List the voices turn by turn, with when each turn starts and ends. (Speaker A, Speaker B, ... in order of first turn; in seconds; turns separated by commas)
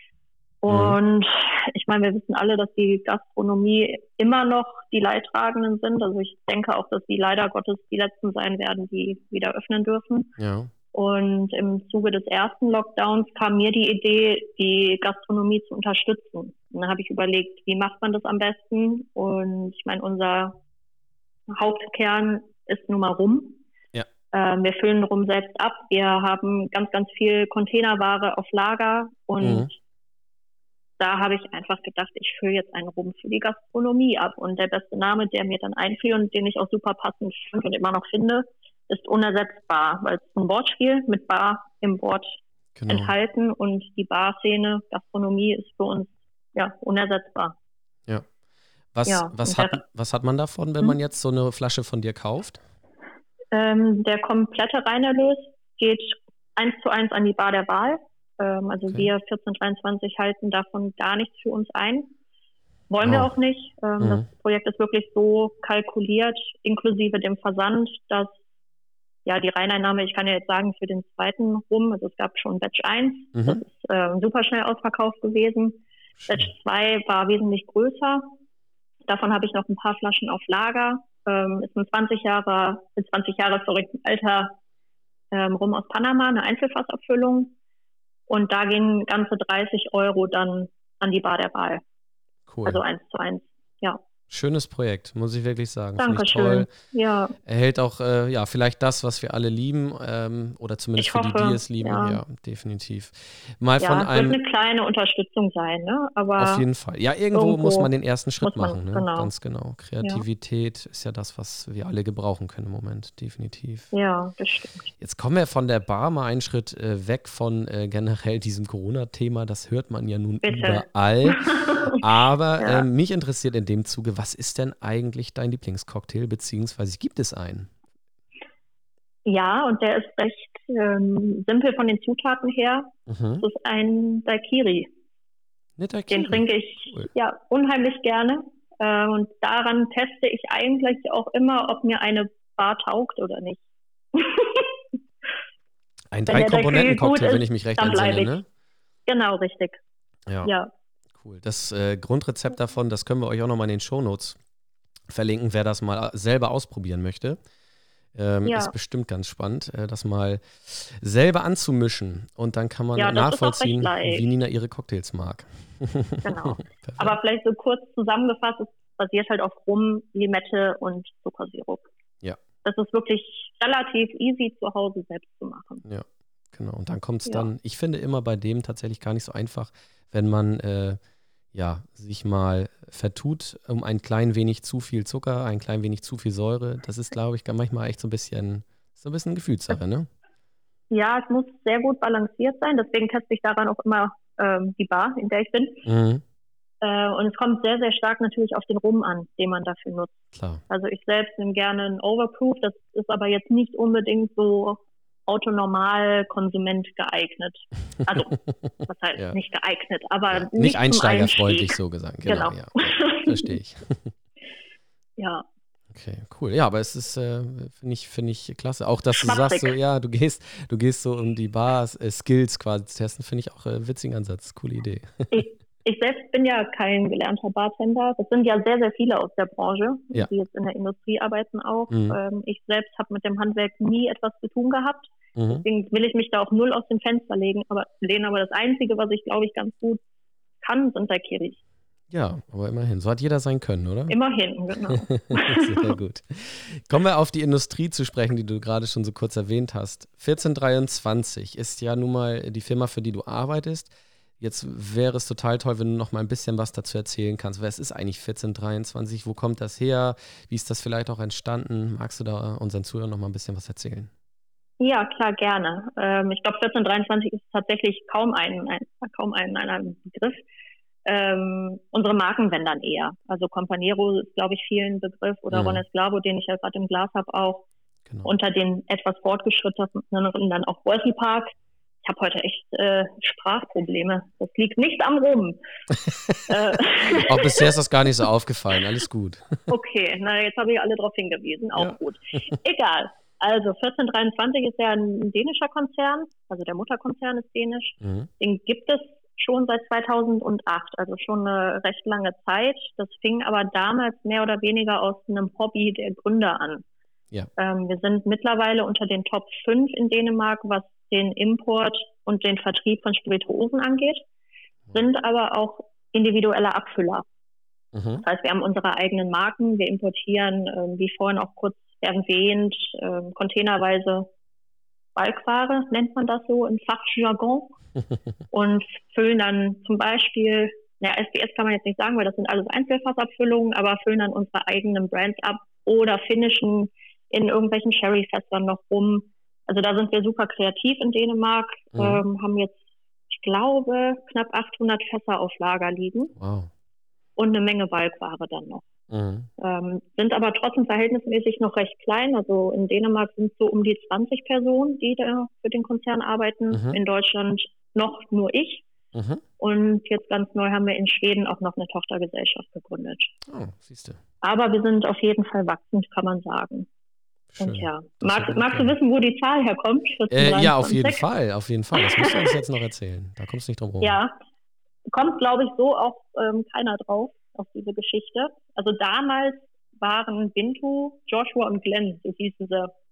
Speaker A: 0.6-10.3, Speaker B: 0.7-1.0, Speaker B: 10.4-10.7, Speaker A: 10.9-20.6, Speaker A: 21.5-23.6, Speaker A: 24.3-29.8, Speaker B: 29.4-29.7, Speaker A: 31.0-47.5, Speaker B: 42.8-43.1, Speaker B: 48.9-52.6, Speaker A: 49.1-49.8, Speaker A: 53.5-62.1, Speaker A: 62.9-68.4, Speaker B: 63.0-63.3, Speaker B: 64.0-64.2, Speaker A: 69.2-78.3, Speaker B: 73.3-73.6, Speaker A: 79.1-84.6, Speaker A: 85.3-87.5, Speaker A: 88.3-91.8, Speaker B: 92.5-92.8, Speaker A: 92.6-94.0, Speaker B: 94.3-96.7, Speaker A: 96.0-97.4, Speaker B: 97.5-104.4, Speaker A: 101.0-102.2, Speaker A: 103.8-106.6, Speaker B: 106.4-113.9, Speaker A: 107.3-107.9, Speaker A: 108.4-109.3, Speaker A: 113.9-114.9, Speaker B: 115.0-127.7, Speaker A: 120.4-122.0, Speaker A: 122.6-122.9, Speaker A: 129.2-134.9, Speaker B: 133.1-133.4, Speaker B: 135.8-137.1, Speaker A: 136.1-143.6, Speaker A: 144.1-144.7, Speaker B: 146.1-148.5, Speaker A: 146.3-148.4, Speaker A: 149.1-149.8, Speaker B: 150.3-150.5, Speaker A: 150.4-150.7, Speaker B: 151.2-154.4, Speaker B: 155.1-157.4, Speaker B: 158.1-167.2, Speaker A: 158.4-158.7, Speaker A: 163.0-164.2, Speaker A: 166.2-171.8, Speaker A: 172.6-175.8, Speaker B: 175.8-181.0, Speaker B: 181.5-190.1, Speaker A: 190.9-195.8, Speaker B: 195.8-196.2, Speaker A: 196.8-200.2, Speaker B: 200.3-200.6, Speaker A: 200.7-208.3, Speaker B: 208.1-209.3, Speaker A: 208.9-213.6, Speaker B: 210.3-214.1, Speaker A: 215.2-215.4, Speaker B: 215.9-225.3, Speaker A: 219.1-219.8, Speaker A: 225.3-240.0, Speaker B: 231.9-232.2, Speaker B: 235.4-235.6, Speaker A: 240.6-241.6, Speaker B: 242.1-244.2, Speaker A: 244.1-245.9, Speaker B: 244.9-264.1, Speaker A: 264.8-270.4, Speaker A: 271.1-277.7, Speaker B: 275.5-275.8, Speaker B: 278.1-278.3, Speaker A: 278.2-285.6, Speaker B: 285.9-286.5, Speaker A: 286.5-287.7, Speaker B: 287.1-289.6, Speaker A: 289.7-306.9, Speaker B: 298.0-298.3, Speaker A: 307.6-314.2, Speaker A: 314.9-317.2, Speaker B: 317.9-318.2, Speaker A: 318.2-324.3, Speaker A: 325.2-327.8, Speaker A: 328.5-346.3, Speaker B: 341.9-342.2, Speaker B: 346.4-346.7, Speaker A: 347.4-348.9, Speaker B: 349.1-349.5, Speaker A: 349.6-358.9, Speaker B: 356.7-357.0, Speaker B: 359.1-359.4, Speaker A: 359.6-363.3, Speaker B: 363.5-364.2, Speaker A: 364.4-366.9, Speaker B: 367.5-368.9, Speaker A: 367.6-371.2, Speaker B: 370.3-374.2, Speaker A: 372.0-372.5, Speaker A: 374.0-374.4, Speaker A: 375.1-382.9